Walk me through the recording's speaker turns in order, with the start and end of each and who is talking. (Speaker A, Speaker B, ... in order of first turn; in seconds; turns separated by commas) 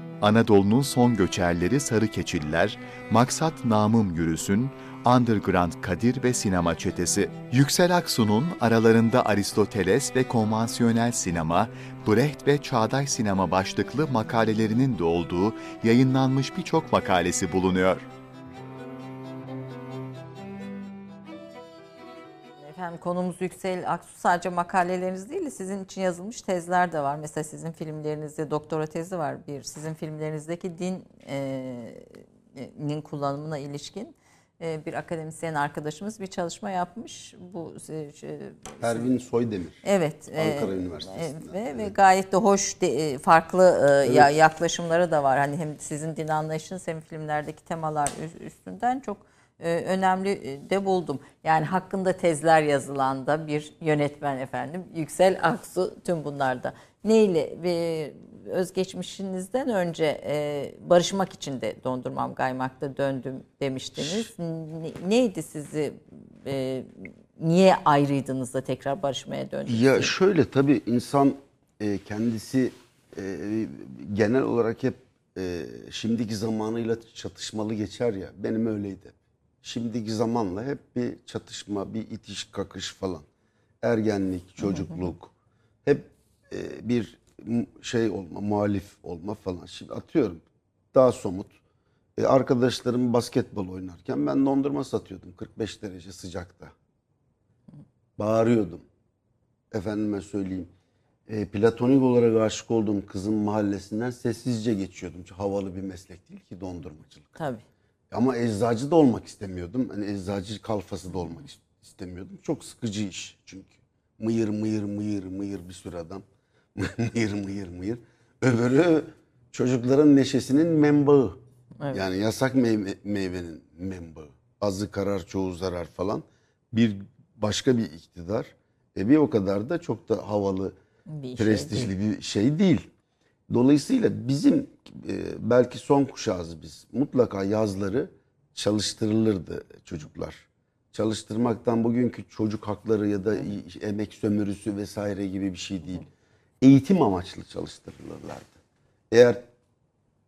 Speaker A: 0.2-18.1, Speaker B: 22.6-39.0, Speaker C: 38.8-39.8, Speaker B: 39.8-70.1, Speaker C: 40.3-41.9, Speaker C: 44.0-44.3, Speaker C: 64.0-64.3, Speaker C: 69.7-83.2, Speaker C: 83.8-85.3, Speaker C: 85.8-91.5, Speaker C: 92.2-96.7, Speaker C: 98.2-98.8, Speaker C: 99.7-100.7, Speaker C: 101.3-107.4, Speaker B: 107.4-107.6, Speaker C: 108.1-116.2, Speaker C: 116.7-121.4, Speaker C: 121.9-130.7, Speaker B: 131.1-131.9, Speaker C: 131.4-132.9, Speaker C: 133.5-146.1, Speaker C: 146.6-148.6, Speaker C: 149.1-149.5